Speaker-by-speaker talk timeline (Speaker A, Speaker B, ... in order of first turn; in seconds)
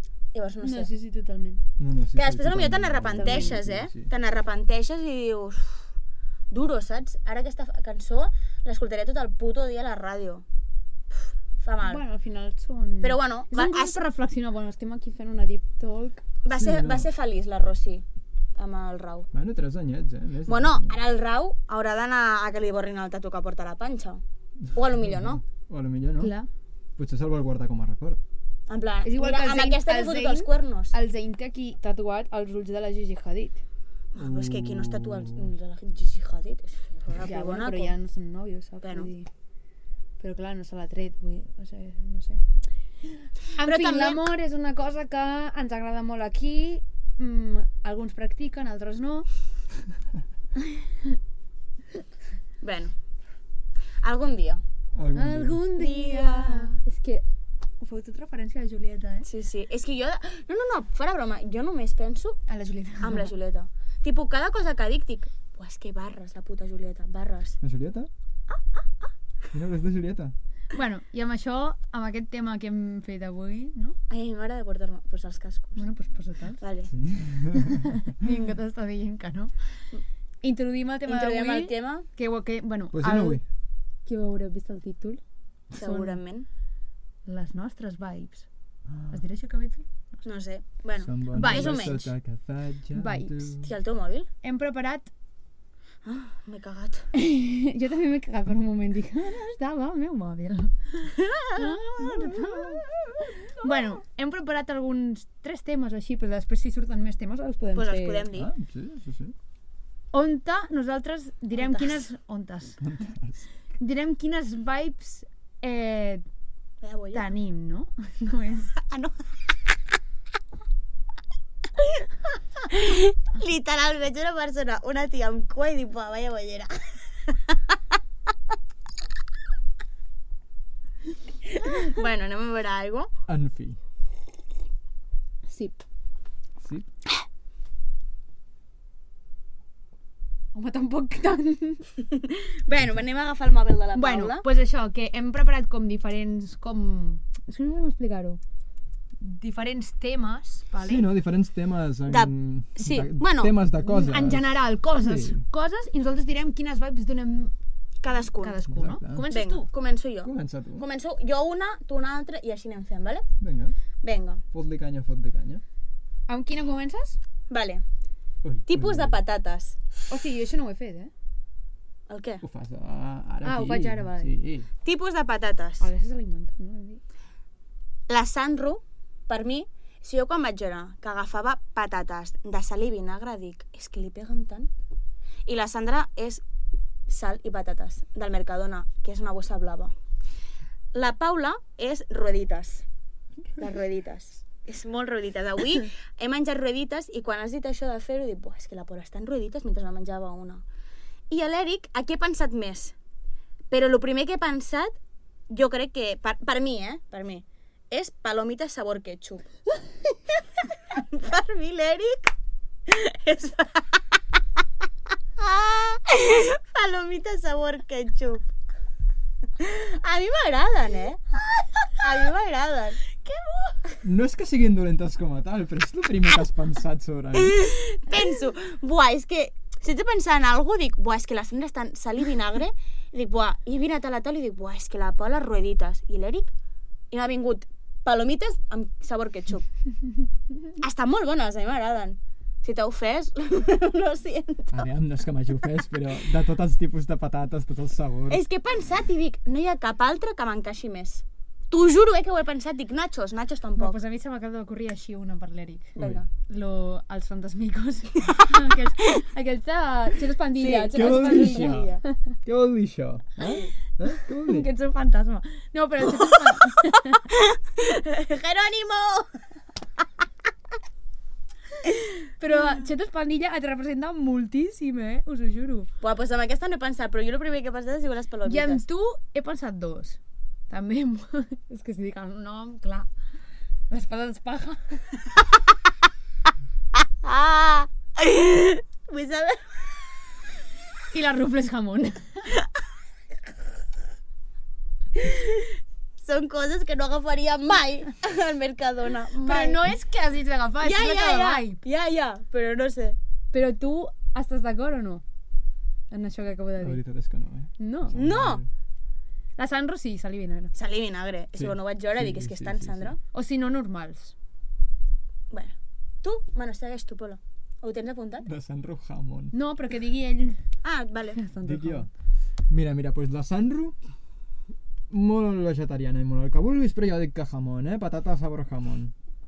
Speaker A: 0.3-0.9, 2.1-5.8, 6.5-10.4, 11.2-12.0, 13.0-14.0, 16.4-18.1, 18.6-19.3, 20.5-24.2, 24.7-25.4, 28.7-30.9, 34.1-38.0, 38.8-39.1, 43.6-44.2, 52.6-52.9, 54.0-54.6, 55.8-56.7, 59.2-62.4, 63.0-67.6, 74.1-75.8, 76.6-76.9, 81.1-82.1, 85.7-86.5, 90.2-92.0, 93.6-94.3, 96.0-97.1, 107.8-108.5, 111.6-112.0, 116.8-117.3, 118.9-119.2, 122.6-126.7, 127.3-127.6, 131.6-133.1, 142.2-144.4, 152.1-153.5, 158.0-158.6, 159.3-163.3, 164.0-164.4, 167.5-167.8, 168.7-169.8, 172.1-172.4, 174.8-175.8, 178.1-184.7, 185.5-186.4, 187.1-189.9, 190.9-192.8, 193.6-200.6, 201.3-202.9, 203.7-204.9, 205.5-209.4, 210.9-212.3, 212.9-214.0, 215.4-218.4, 219.6-224.0, 227.3-236.5, 237.1-239.7, 240.8-244.8, 248.3-254.0, 256.0-256.3, 260.6-262.0, 267.3-269.3, 276.0-278.8, 287.0-289.8, 295.1-299.8, 300.8-303.2, 308.1-308.6, 310.7-313.2, 315.5-318.5, 320.8-321.4
Speaker B: 0.6-1.6, 3.2-3.6, 11.8-16.2, 26.2-26.5, 29.0-33.6, 37.2-39.3, 40.2-42.4, 43.0-49.3, 50.6-51.2, 55.1-57.2, 57.8-59.3, 62.5-63.3, 68.5-69.1, 70.7-74.0, 75.8-76.6, 77.6-79.7, 80.4-83.4, 84.1-85.2, 85.8-86.2, 87.3-88.5, 89.1-90.2, 91.3-92.1, 92.9-93.5, 94.4-95.1, 97.1-102.9, 103.5-108.3, 110.1-112.8, 113.8-116.2, 117.1-118.7, 135.5-135.8, 140.5-141.9, 143.9-148.4, 149.2-151.1, 153.8-157.5, 158.3-159.7, 166.3-167.2, 170.1-171.1, 173.4-174.3, 175.8-177.0, 253.8-256.0, 256.5-262.3, 264.3-267.2, 272.4-275.9, 278.5-283.1, 283.9-285.1, 291.1-292.5, 299.4-301.8, 303.5-305.2, 306.1-307.0, 307.8-308.2, 309.6-310.7, 313.3-314.4, 319.5-320.6, 321.4-322.1
Speaker C: 1.8-4.1, 16.5-17.1, 19.3-21.0, 24.7-26.3, 27.0-28.2, 34.2-35.5, 55.0-55.6, 67.6-68.1, 69.5-70.3, 76.9-77.9, 82.9-83.4, 88.9-89.2, 91.0-93.7, 102.0-102.8, 108.3-109.3, 112.8-113.4, 133.3-133.8, 136.6-136.9, 150.8-155.4, 158.7-159.3, 160.2-160.8, 163.4-163.8, 164.5-165.6, 168.4-169.2, 172.4-174.7, 224.0-227.6, 244.7-248.4, 256.0-256.2, 260.9-264.7, 306.8-308.7, 311.6-313.2, 318.4-319.5, 321.6-322.1, 322.7-324.0, 325.1-329.1